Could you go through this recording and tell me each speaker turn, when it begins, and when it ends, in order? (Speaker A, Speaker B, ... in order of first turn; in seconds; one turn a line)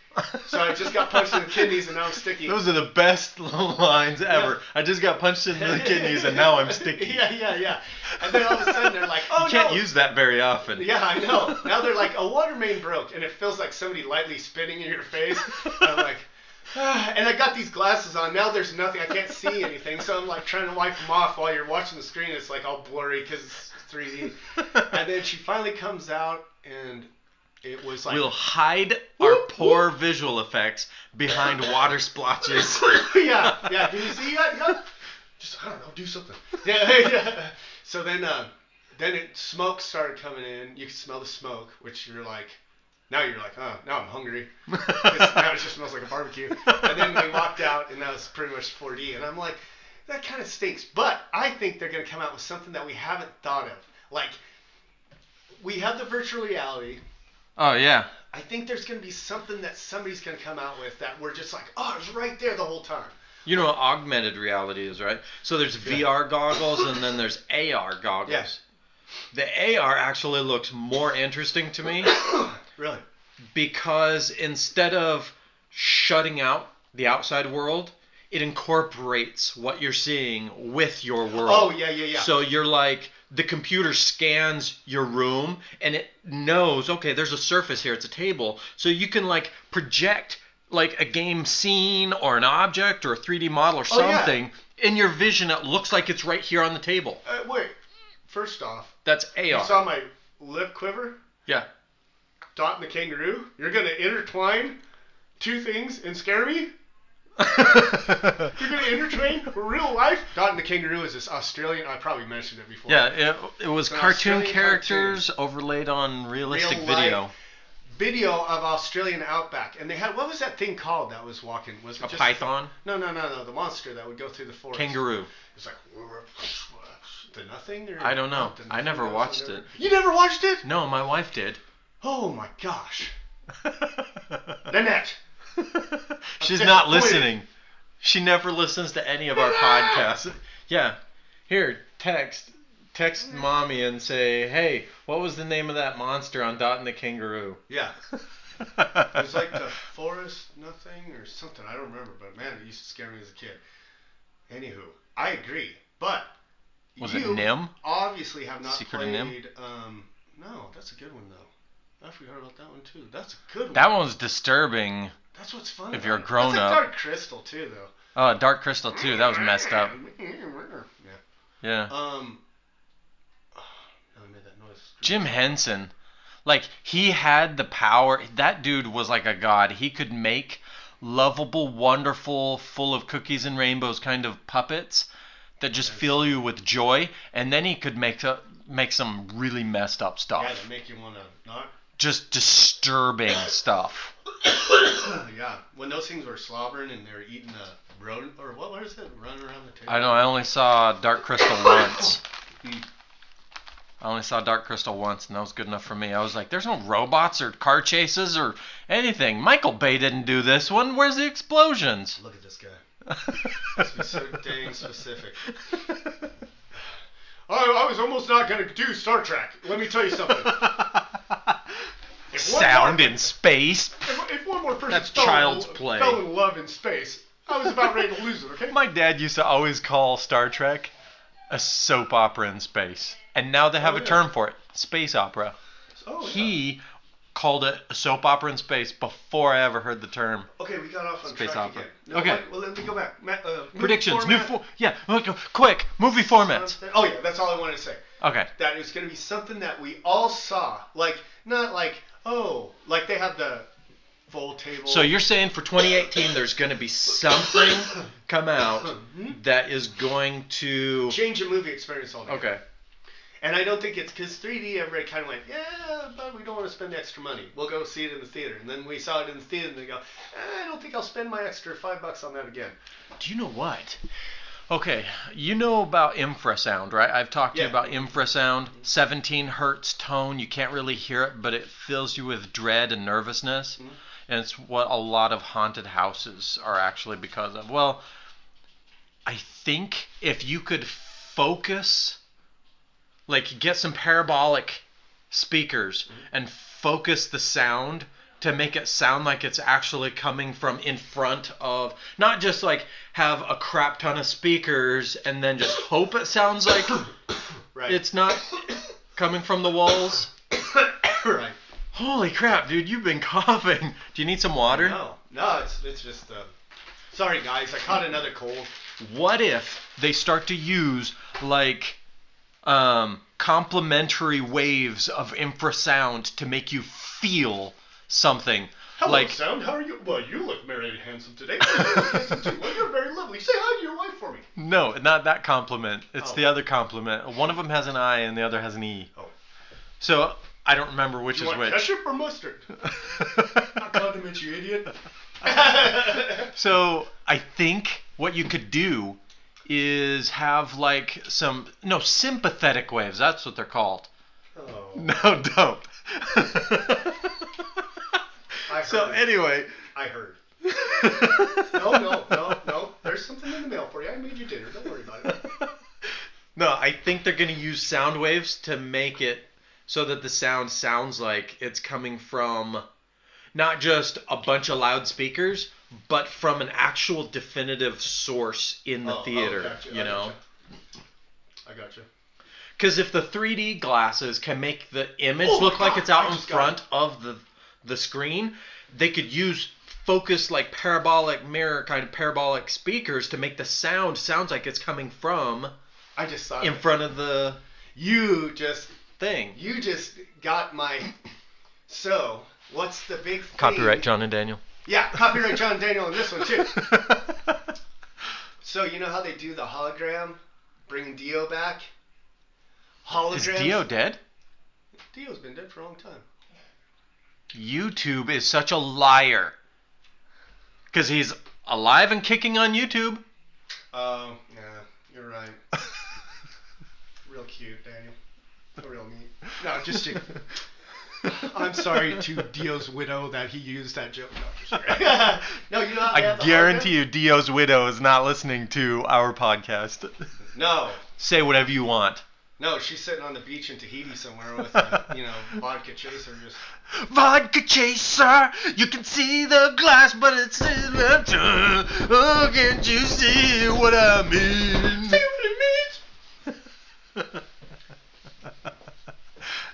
Speaker A: 0.2-1.6
Speaker B: 0.4-2.6
Speaker A: 2.4-7.4
Speaker B: 4.3-4.6
Speaker B: 5.5-9.9
Speaker A: 8.3-11.0
Speaker B: 10.8-27.1
Speaker B: 27.6-28.3
Speaker A: 28.1-33.9
Speaker B: 29.2-29.9
Speaker B: 32.9-54.4
Speaker A: 44.7-45.5
Speaker A: 46.7-47.3
Speaker B: 55.6-57.0
Speaker A: 57.6-58.1
Speaker B: 58.2-63.1
Speaker A: 63.5-68.6
Speaker B: 65.8-66.1
Speaker B: 68.3-68.5
Speaker A: 69.3-72.2
Speaker B: 72.1-73.0
Speaker A: 73.5-97.2
Speaker B: 81.4-82.3
Speaker B: 93.9-94.4
Speaker B: 97.2-97.8
Speaker B: 98.3-99.0
Speaker A: 99.0-99.8
Speaker B: 99.5-101.2
Speaker B: 102.5-104.8
Speaker B: 105.4-106.7
Speaker A: 107.4-108.5
Speaker B: 107.6-113.1
Speaker A: 112.9-117.3
Speaker B: 113.9-115.2
Speaker B: 116.4-117.3
Speaker B: 118.0-130.7
Speaker A: 122.0-122.7
Speaker A: 124.7-125.3
Speaker A: 128.0-129.7
Speaker A: 130.6-131.6
Speaker B: 132.0-133.1
Speaker A: 133.6-134.6
Speaker B: 134.7-135.2
Speaker A: 135.6-137.5
Speaker B: 136.4-137.3
Speaker A: 138.0-147.6
Speaker B: 139.4-140.1
Speaker B: 147.7-148.0
Speaker A: 148.8-149.6
Speaker B: 149.1-153.6
Speaker B: 154.5-156.3
Speaker B: 157.0-163.9
Speaker A: 157.0-157.7
Speaker A: 158.7-159.4
Speaker A: 163.7-165.2
Speaker B: 165.3-167.9
Speaker A: 165.9-166.8
Speaker A: 168.2-169.9
Speaker B: 168.9-171.2
Speaker A: 171.6-171.9
Speaker B: 171.9-172.4
Speaker B: 173.5-175.6
Speaker A: 175.0-175.9
Speaker A: 176.4-190.6
Speaker B: 185.8-186.3
Speaker B: 190.4-191.7
Speaker A: 192.0-194.1
Speaker B: 194.7-200.3
Speaker A: 199.9-202.2
Speaker A: 204.0-212.2
Speaker B: 212.2-212.8
Speaker A: 213.1-213.9
Speaker B: 213.7-215.4
Speaker A: 215.6-216.1
Speaker B: 217.5-220.7
Speaker A: 220.4-221.6
Speaker B: 222.3-223.3
Speaker A: 222.3-224.1
Speaker B: 224.0-228.8
Speaker A: 224.9-226.2
Speaker A: 228.7-230.9
Speaker A: 231.5-235.6
Speaker B: 233.8-234.2
Speaker B: 236.0-236.6
Speaker A: 236.2-236.8
Speaker A: 237.3-240.5
Speaker B: 240.6-244.6
Speaker A: 241.2-242.4
Speaker A: 243.8-246.8
Speaker B: 246.2-248.0
Speaker A: 248.2-248.5
Speaker B: 248.6-253.7
Speaker B: 254.3-255.2
Speaker A: 254.9-261.2
Speaker B: 258.8-259.4
Speaker B: 261.1-262.6
Speaker A: 262.3-262.6
Speaker B: 263.4-272.8
Speaker A: 273.2-274.0
Speaker A: 274.7-288.0
Speaker B: 277.5-278.1
Speaker A: 289.3-292.2
Speaker A: 293.3-307.1
Speaker B: 307.7-308.0
Speaker A: 307.9-310.3
Speaker B: 310.8-311.6
Speaker A: 311.9-315.0
Speaker B: 314.7-316.5
Speaker B: 317.1-318.7
Speaker A: 319.0-322.0
Speaker A: 322.6-329.4
Speaker B: 329.0-334.5
Speaker A: 334.6-339.1
Speaker B: 336.2-336.5
Speaker A: 340.0-341.9
Speaker B: 341.3-342.8
Speaker A: 342.8-343.8
Speaker B: 343.4-346.5
Speaker A: 346.3-354.1
Speaker B: 354.6-355.1
Speaker A: 355.0-357.5
Speaker B: 358.7-359.3
Speaker A: 358.8-359.7
Speaker B: 359.9-360.4
Speaker A: 360.7-362.4
Speaker B: 361.6-365.5
Speaker A: 365.4-365.7
Speaker A: 366.6-372.9
Speaker A: 373.6-380.4
Speaker B: 379.0-380.4
Speaker B: 381.6-382.1
Speaker A: 382.8-395.7
Speaker B: 385.4-386.8
Speaker B: 396.1-396.9
Speaker A: 396.6-397.6
Speaker B: 397.9-398.9
Speaker A: 399.2-399.6
Speaker B: 399.5-401.1
Speaker B: 401.9-404.1
Speaker A: 403.6-404.6
Speaker B: 404.9-406.9
Speaker A: 406.6-407.4
Speaker B: 408.6-411.9
Speaker B: 413.0-413.9
Speaker A: 413.3-414.2
Speaker B: 415.1-416.3
Speaker A: 417.5-419.6
Speaker A: 420.9-423.2
Speaker B: 423.9-425.6
Speaker B: 427.2-428.1
Speaker B: 428.8-430.4
Speaker B: 431.2-436.9
Speaker A: 436.1-440.3
Speaker B: 440.5-441.0
Speaker A: 441.2-442.2
Speaker B: 442.6-446.6
Speaker A: 446.9-455.2
Speaker B: 455.0-456.0